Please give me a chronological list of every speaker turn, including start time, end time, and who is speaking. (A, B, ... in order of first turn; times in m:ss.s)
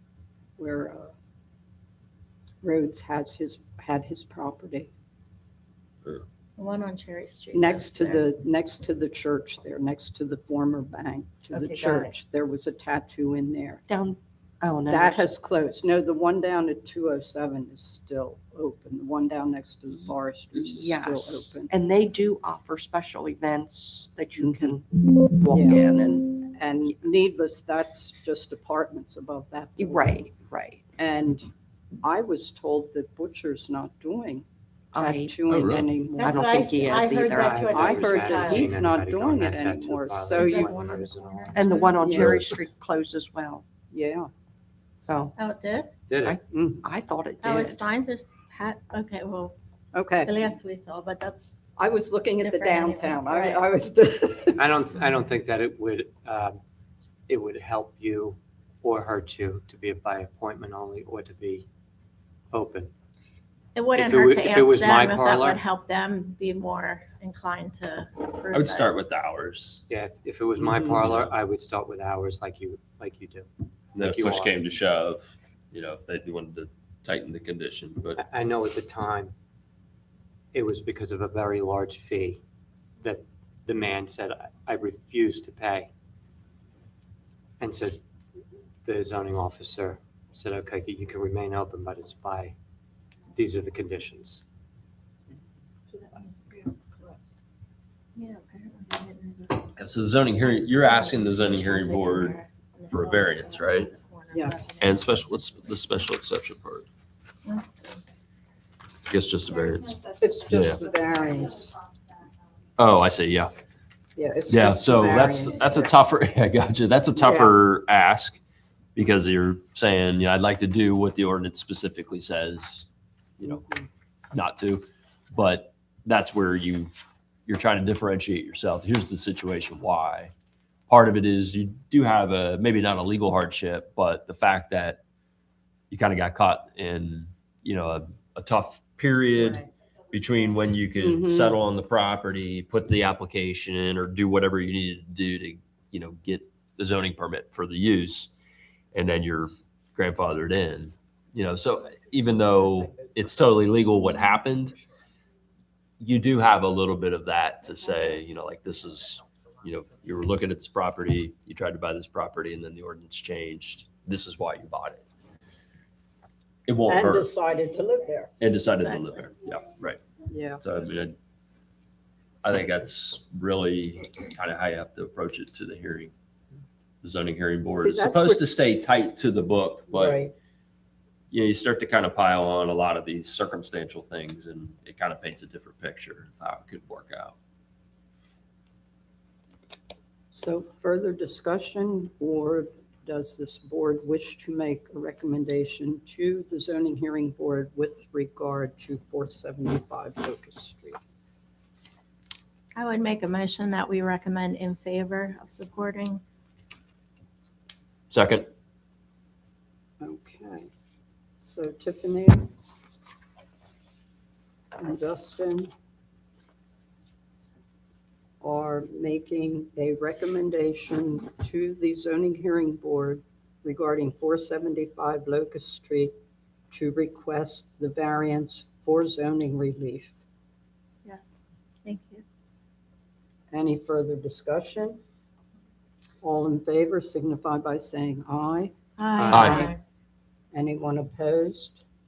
0:00.6-0:01.1 A
0:02.6-0:04.9 A
0:06.6-0:08.2 B
0:07.5-0:13.8 A
0:13.9-0:15.3 C
0:14.9-0:21.7 A
0:20.6-0:26.4 C
0:24.4-0:24.7 A
0:25.5-0:25.8 A
0:26.4-0:30.3 A
0:29.8-0:30.8 C
0:31.0-0:31.5 A
0:32.0-0:34.4 A
0:34.9-0:35.4 C
0:35.0-0:41.0 A
0:35.5-0:35.9 D
0:36.2-0:38.2 C
0:36.2-0:38.7 B
0:37.3-0:41.8 E
0:40.3-0:42.3 B
0:41.5-0:43.6 C
0:42.0-0:42.5 A
0:43.9-0:44.3 A
0:45.0-0:45.3 C
0:45.4-0:45.9 B
0:46.1-0:46.4 E
0:46.2-0:47.8 C
0:46.5-0:46.8 A
0:47.4-0:49.6 B
0:49.9-0:50.4 A
0:50.2-0:51.6 B
0:51.8-0:54.7 A
0:52.4-0:53.6 B
0:54.6-0:56.6 E
0:57.3-1:01.6 E
1:02.5-1:02.9 E
1:03.7-1:08.9 B
1:03.9-1:05.6 E
1:08.5-1:09.8 D
1:09.9-1:14.5 E
1:10.6-1:11.0 A
1:14.0-1:18.2 D
1:18.2-1:19.3 E
1:20.5-1:22.4 E
1:23.0-1:25.9 E
1:27.6-1:28.0 E
1:28.8-1:32.5 E
1:33.3-1:34.4 E
1:35.9-1:36.8 B
1:38.2-1:39.8 B
1:39.8-1:43.9 D
1:40.4-1:45.2 B
1:44.3-1:44.7 A
1:44.8-1:46.9 D
1:47.4-1:48.0 B
1:49.1-1:50.8 D
1:50.2-1:51.8 A
1:52.8-1:53.5 D
1:54.2-1:55.9 A
1:54.5-1:58.4 D
1:57.2-1:57.6 A
1:58.9-2:02.9 D
2:03.4-2:03.6 D
2:04.3-2:06.9 D
2:07.4-2:10.3 D
2:10.9-2:15.0 D
2:15.9-2:28.3 D
2:19.4-2:19.6 A
2:21.0-2:21.6 A
2:28.9-2:34.8 D
2:36.0-2:45.0 D
2:46.7-2:47.3 D
2:46.9-2:48.3 A
2:48.4-2:50.0 D
2:48.7-2:49.2 B
2:50.3-2:50.6 A
2:50.6-2:51.2 D
2:52.4-2:56.1 D
2:57.0-3:00.2 D
2:57.7-2:58.4 A
2:59.9-3:00.3 A
3:01.3-3:07.4 D
3:10.3-3:21.0 A
3:22.8-3:26.2 B
3:28.1-3:28.4 D
3:30.0-3:30.7 A
3:31.4-3:32.5 A
3:34.8-3:35.7 A
3:38.4-3:46.1 A
3:46.7-3:50.2 A
3:51.0-3:52.2 B
3:53.5-3:55.0 A
3:56.2-3:58.7 A
3:59.0-3:59.8 B
3:59.2-3:59.7 E
3:59.3-3:59.7 D
4:00.5-4:01.8 A